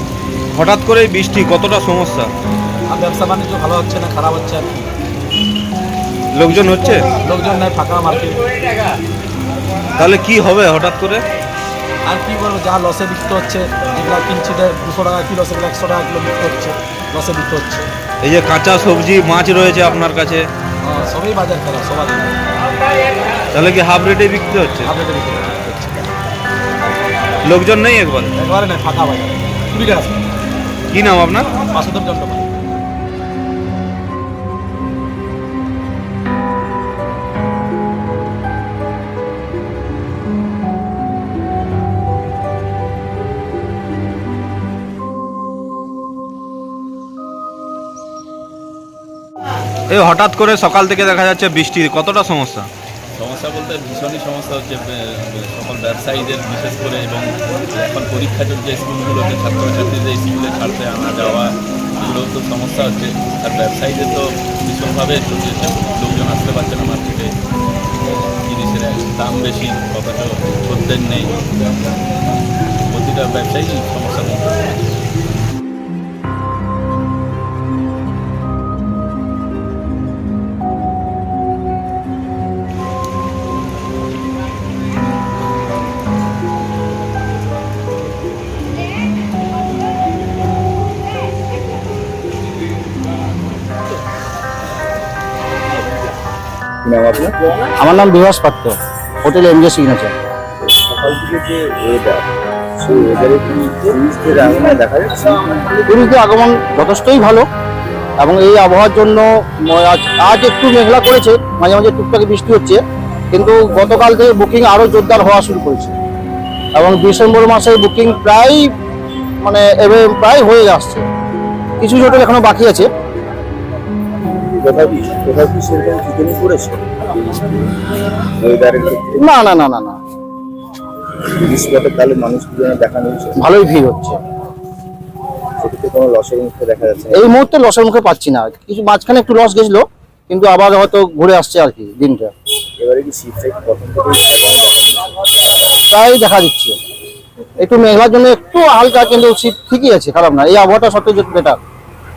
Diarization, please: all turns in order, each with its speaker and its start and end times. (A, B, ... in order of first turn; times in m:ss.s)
0:00.5-0:02.3 A
0:02.9-0:04.9 B
0:06.3-0:07.0 A
0:07.2-0:08.5 B
0:10.0-0:11.2 A
0:12.0-0:17.8 B
0:18.2-0:20.4 A
0:20.8-0:22.4 B
0:23.5-0:24.9 A
0:24.8-0:26.1 B
0:27.4-0:28.3 A
0:28.3-0:30.2 B
0:30.9-0:31.5 A
0:31.6-0:32.5 B
0:49.9-0:52.7 A
0:53.1-1:07.3 C
1:08.4-1:11.4 C
1:12.9-1:14.8 C
1:36.8-1:37.3 D
1:37.8-1:40.1 E
1:40.7-1:42.3 D
1:42.8-1:45.7 D
1:45.8-1:47.4 E
1:48.2-1:52.8 E
1:53.3-1:55.9 E
1:56.7-1:58.7 E
1:59.4-2:01.0 E
2:01.8-2:02.9 E
2:04.4-2:07.5 D
2:08.4-2:09.2 D
2:09.2-2:10.0 E
2:11.2-2:13.4 D
2:13.4-2:14.2 E
2:15.6-2:17.2 D
2:17.1-2:22.3 E
2:22.8-2:25.2 D
2:25.9-2:26.8 E
2:27.6-2:31.6 E